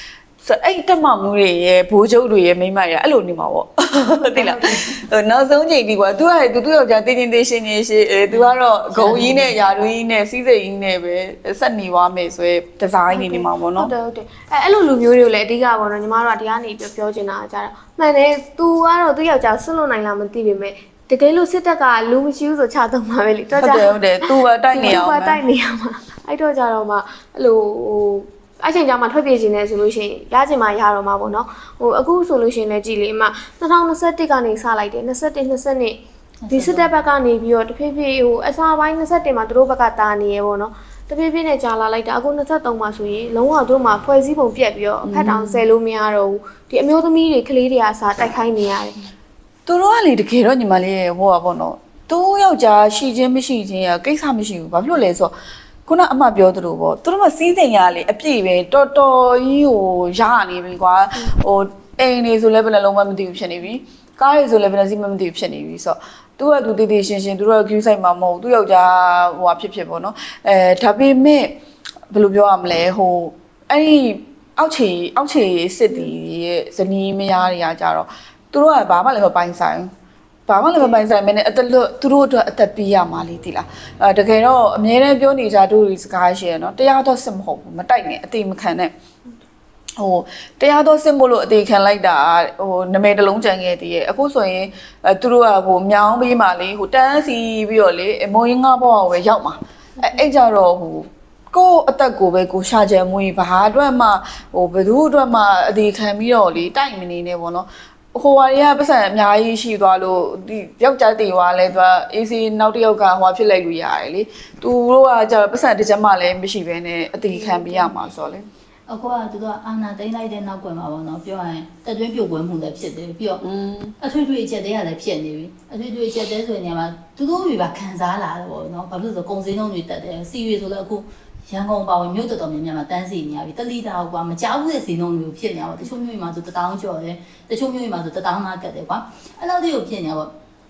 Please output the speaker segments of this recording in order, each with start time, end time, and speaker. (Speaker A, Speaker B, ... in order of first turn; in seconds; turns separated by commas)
Speaker A: 0.4-13.9, Speaker B: 4.3-4.7, Speaker C: 4.3-5.0, Speaker C: 8.3-9.6, Speaker B: 13.1-36.0, Speaker A: 23.6-25.4, Speaker C: 36.4-36.9, Speaker B: 36.5-49.0, Speaker A: 45.0-45.4, Speaker A: 49.7-55.3, Speaker A: 55.9-71.6, Speaker A: 72.1-79.9, Speaker A: 80.5-88.9, Speaker B: 80.8-81.0, Speaker A: 90.0-118.5, Speaker B: 117.3-118.0, Speaker C: 118.9-123.4, Speaker A: 123.4-124.0, Speaker C: 124.0-140.3